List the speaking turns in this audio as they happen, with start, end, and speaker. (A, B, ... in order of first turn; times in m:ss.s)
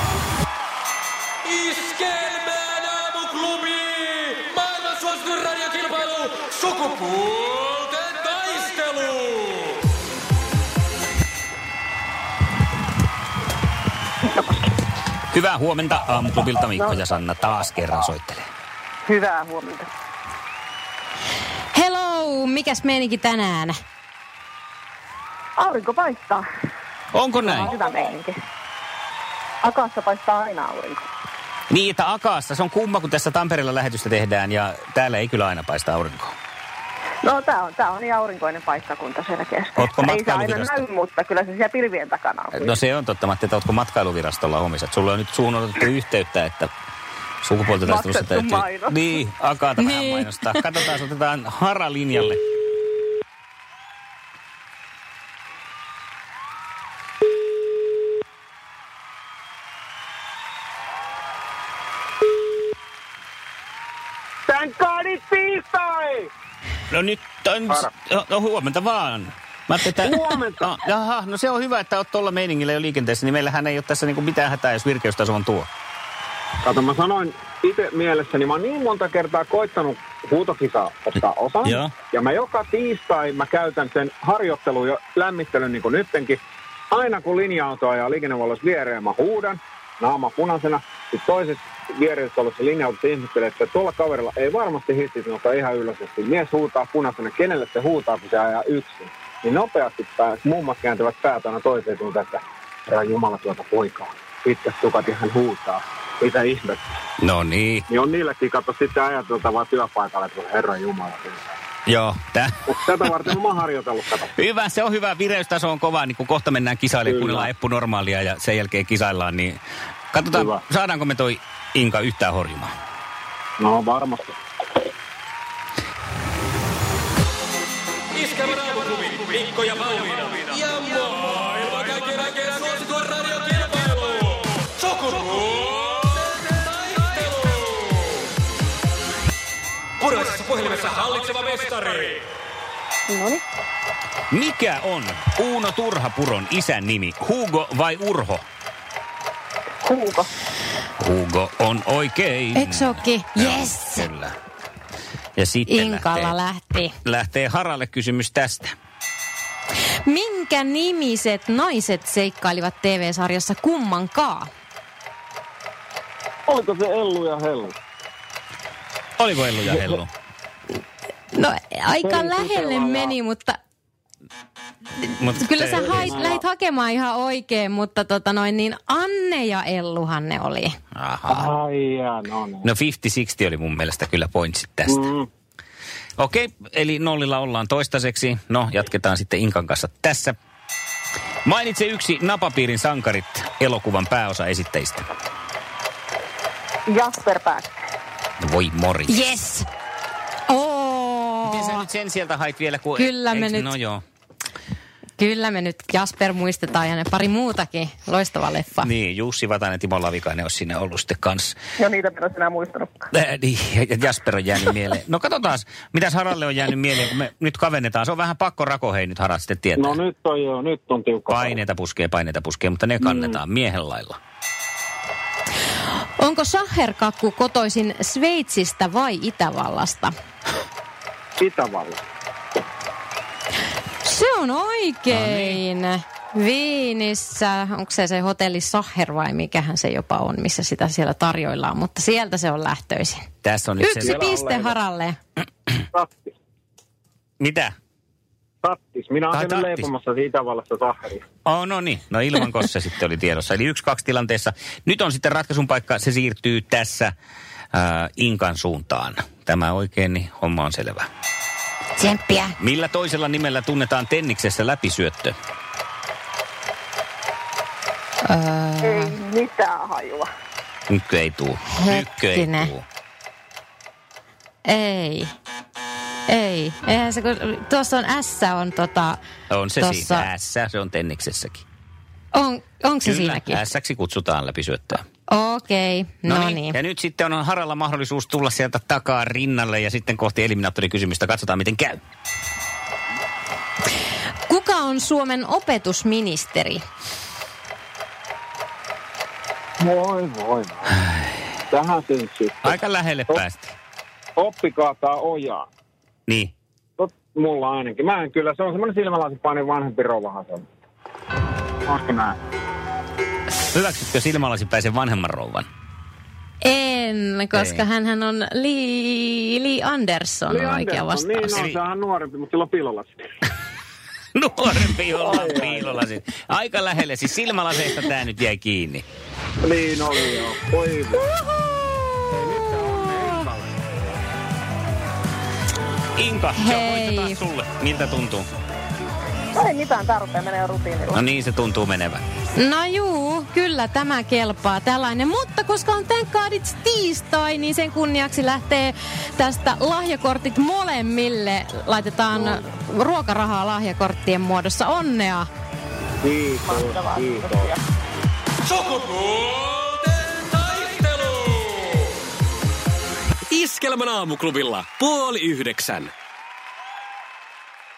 0:01.5-0:09.4 A
0:14.2-0:14.7 B
0:15.3-0:18.5 C
0:19.0-0:19.9 B
0:21.7-0:23.8 D
0:25.6-0:26.4 B
0:27.1-0:27.7 C
0:27.4-0:28.3 B
0:29.6-0:31.1 B
0:31.7-0:36.4 C
0:37.2-0:42.7 B
0:39.8-0:40.8 C
0:42.5-0:46.7 C
0:47.4-0:52.4 C
0:47.8-0:49.0 B
0:49.8-0:50.6 D
1:04.5-1:06.3 E
1:06.9-1:15.7 C
1:10.0-1:10.7 E
1:16.6-1:26.4 E
1:21.6-1:21.9 C
1:26.9-1:46.8 E
1:47.2-1:47.9 C
1:47.9-1:51.6 E
1:51.9-1:52.7 C
1:52.7-1:54.3 E
1:54.4-1:59.6 C
1:57.1-1:57.5 E
2:00.1-2:02.7 C
2:00.3-2:00.6 E
2:03.6-2:04.4 E
2:08.3-2:14.3 A
2:20.0-2:21.9 A
2:23.1-2:23.4 B
2:24.3-2:28.4 C
2:29.8-2:30.3 B
2:31.0-2:34.4 C
2:32.6-2:34.0 D
2:35.4-2:36.4 C
2:35.7-2:36.9 D
2:37.0-2:38.7 C
2:40.0-2:44.5 D
2:46.5-2:47.8 E
2:49.2-2:50.1 C
2:51.3-2:53.6 D
2:52.0-2:53.2 E
2:55.0-3:00.8 D
2:55.2-2:56.2 C
2:55.7-2:56.4 E
3:01.0-3:01.5 C
3:01.3-3:02.7 E
3:02.6-3:05.0 C
3:04.9-3:05.3 E
3:06.2-3:10.4 C
3:11.4-3:15.1 C
3:16.9-3:17.8 B
3:18.4-3:19.2 C
3:19.1-3:19.7 D
3:20.5-3:21.9 D
3:21.4-3:24.0 C
3:23.0-3:23.7 D
3:25.2-3:28.9 D
3:28.8-3:31.6 C
3:31.8-3:33.1 B
3:33.1-3:40.0 C
3:39.8-3:41.6 E
3:41.3-3:44.2 C
3:46.2-3:50.1 D
3:51.4-3:52.0 E
3:54.0-4:03.3 D
3:55.1-3:55.6 C
4:03.4-4:04.2 C
4:03.8-4:05.2 D
4:04.0-4:04.8 E
4:05.9-4:06.4 E
4:07.4-4:07.7 C
4:08.6-4:11.2 E
4:09.3-4:09.9 C
4:11.4-4:17.1 C
4:17.7-4:21.1 C
4:22.0-4:22.6 D
4:22.6-4:25.4 C
4:28.2-4:29.2 D
4:28.8-4:30.3 B
4:30.9-4:32.9 C
4:31.7-4:32.7 D
4:34.6-4:35.3 D
4:36.3-4:39.2 D
4:39.5-4:41.6 C
4:39.8-4:40.3 D
4:42.3-4:43.6 D
4:43.0-4:45.0 C
4:45.3-4:46.8 D
4:46.3-4:52.0 C
4:54.5-4:56.8 D
4:59.8-5:01.0 E
5:01.7-5:02.8 E
5:02.6-5:03.8 C
5:04.4-5:05.7 E
5:06.3-5:06.5 C
5:07.0-5:10.7 E
5:11.9-5:12.4 E
5:13.7-5:15.7 C
5:16.6-5:21.6 D
5:17.5-5:17.8 C
5:20.5-5:23.2 E
5:21.5-5:21.8 C
5:24.4-5:29.0 C
5:25.2-5:26.0 E
5:29.6-5:31.2 E
5:32.4-5:33.6 E
5:32.8-5:33.2 D
5:36.2-5:38.5 C
5:36.6-5:37.4 D
5:39.6-5:41.2 B
5:41.1-5:42.2 C
5:42.6-5:55.5 D
5:56.2-5:57.7 E
5:56.6-5:57.8 B
5:58.7-6:01.1 A
6:03.5-6:06.1 A